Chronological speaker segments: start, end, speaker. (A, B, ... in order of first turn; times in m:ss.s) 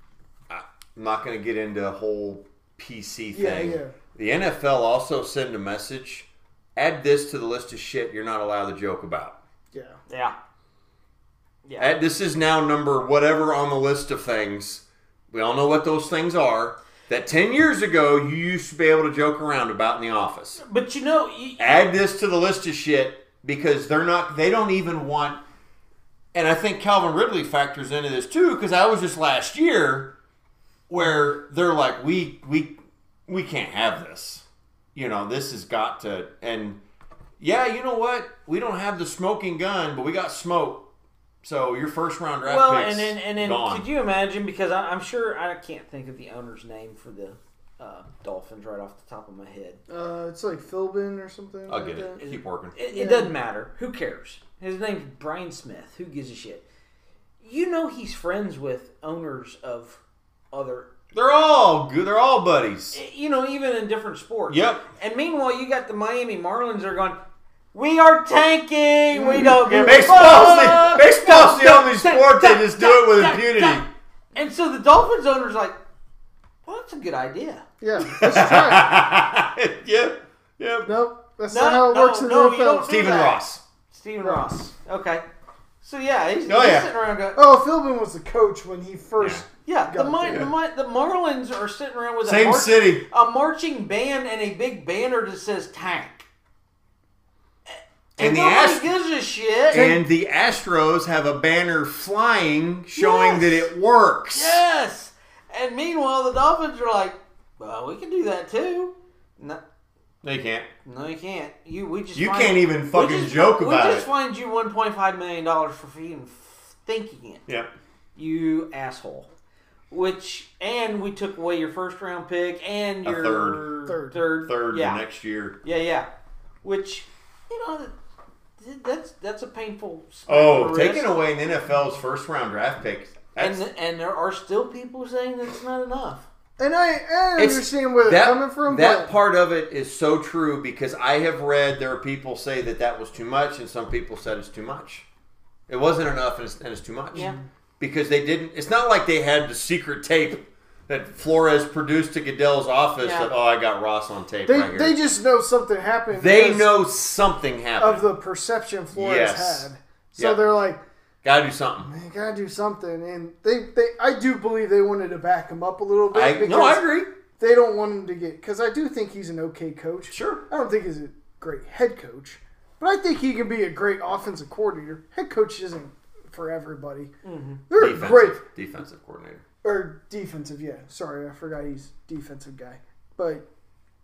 0:00.5-0:09.4 A
0:03.3-0:04.0 B
0:09.7-0:10.0 B
0:10.1-0:10.3 C
0:11.6-0:11.9 C
0:11.8-0:20.6 A
0:20.6-0:21.8 C
0:21.6-0:25.4 A
0:26.3-0:30.1 A
0:30.9-0:32.7 A
0:33.3-0:36.8 A
0:37.4-0:40.8 A
0:41.4-0:43.9 A
0:42.4-0:49.8 C
0:49.9-0:52.2 B
0:51.7-0:52.8 A
0:52.2-0:56.6 C
0:52.9-0:53.3 B
0:57.4-1:00.0 C
1:00.5-1:00.9 C
1:01.1-1:03.0 A
1:02.9-1:07.2 C
1:04.5-1:04.8 A
1:07.7-1:15.8 C
1:09.1-1:10.4 B
1:09.8-1:13.8 A
1:16.6-1:17.6 C
1:17.8-1:18.9 B
1:18.0-1:20.9 A
1:20.8-1:22.9 B
1:21.5-1:23.4 C
1:22.8-1:23.6 A
1:23.9-1:25.2 C
1:24.2-1:24.5 B
1:25.8-1:27.4 C
1:26.4-1:26.9 A
1:27.3-1:30.5 B
1:29.2-1:29.4 A
1:29.6-1:36.2 C
1:32.2-1:33.0 A
1:37.7-1:39.9 C
1:38.2-1:38.8 A
1:39.7-1:44.6 A
1:39.7-1:40.0 B
1:43.0-1:43.7 C
1:44.3-1:49.6 C
1:50.2-1:50.7 A
1:50.8-1:57.4 C
1:52.2-1:54.1 A
1:58.1-1:59.3 C
1:59.9-2:05.0 C
2:03.0-2:03.7 A
2:03.8-2:04.2 B
2:04.3-2:05.6 A
2:05.6-2:06.1 C
2:06.6-2:07.9 C
2:08.6-2:11.1 C
2:10.3-2:13.6 A
2:13.4-2:16.3 C
2:16.6-2:19.1 B
2:17.4-2:25.0 A
2:25.7-2:35.0 A
2:27.1-2:27.4 B
2:33.0-2:33.3 C
2:34.4-2:36.7 B
2:36.1-2:38.1 A
2:37.8-2:40.8 B
2:38.9-2:40.4 A
2:41.2-2:41.9 A
2:41.8-2:46.9 B
2:46.1-2:47.1 A
2:47.4-2:57.1 B
2:50.1-2:50.4 A
2:57.2-2:57.6 C
2:57.7-2:58.4 B
2:57.8-2:59.4 A
2:59.6-3:03.4 B